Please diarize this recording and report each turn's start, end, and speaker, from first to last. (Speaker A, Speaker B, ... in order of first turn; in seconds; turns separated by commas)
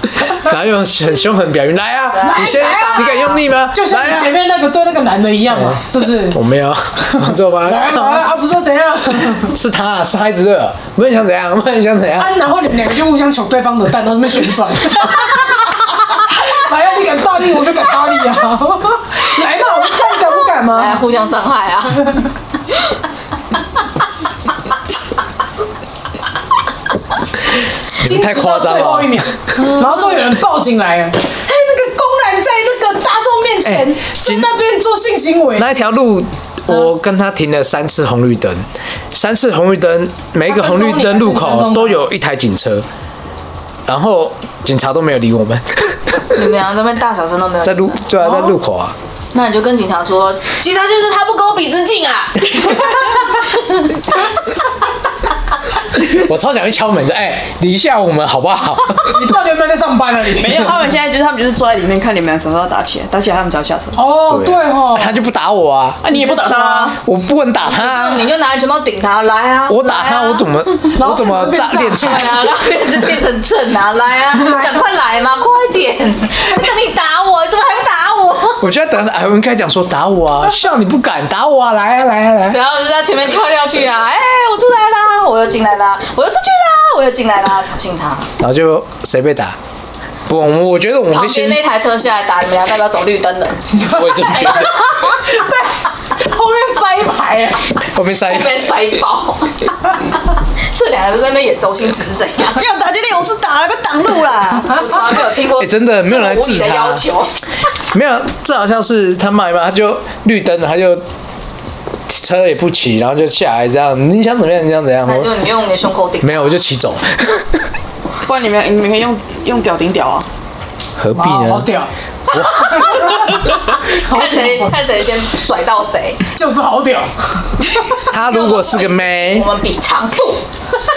Speaker A: 0.3-4.3, Speaker B: 2.1-3.4, Speaker C: 2.2-6.4, Speaker A: 5.5-8.4, Speaker C: 7.1-9.5, Speaker A: 9.3-12.4, Speaker C: 12.2-21.0, Speaker B: 20.6-22.3, Speaker A: 28.0-29.3, Speaker C: 28.0-35.7, Speaker A: 33.6-34.5, Speaker A: 35.6-42.9, Speaker C: 40.4-42.0, Speaker A: 43.9-46.2, Speaker B: 46.3-48.5, Speaker A: 47.6-48.9, Speaker B: 49.3-53.8, Speaker A: 56.0-59.2, Speaker C: 59.0-60.7, Speaker D: 60.3-64.0, Speaker C: 63.9-65.2, Speaker A: 64.3-66.0, Speaker D: 66.0-67.0, Speaker C: 66.1-66.9, Speaker A: 67.0-68.3, Speaker B: 67.6-70.5, Speaker A: 69.7-72.5, Speaker C: 70.9-72.5, Speaker B: 71.9-78.6, Speaker A: 78.6-82.6, Speaker B: 82.5-88.3, Speaker A: 88.4-89.6, Speaker A: 90.3-91.6, Speaker B: 91.1-93.7, Speaker C: 93.7-97.8, Speaker A: 93.9-94.7, Speaker A: 97.8-98.6, Speaker B: 98.2-100.0, Speaker B: 100.6-102.7, Speaker D: 102.5-104.8, Speaker B: 104.7-107.3, Speaker A: 105.6-107.1, Speaker A: 107.9-111.0, Speaker A: 112.1-115.3, Speaker B: 115.0-116.5, Speaker A: 116.2-117.6, Speaker D: 118.2-120.3, Speaker A: 121.0-121.7, Speaker C: 121.1-121.9, Speaker A: 122.3-122.7, Speaker B: 122.3-126.2, Speaker C: 122.8-123.5, Speaker C: 124.0-124.7, Speaker C: 126.3-127.9, Speaker A: 128.1-129.5, Speaker B: 128.1-130.4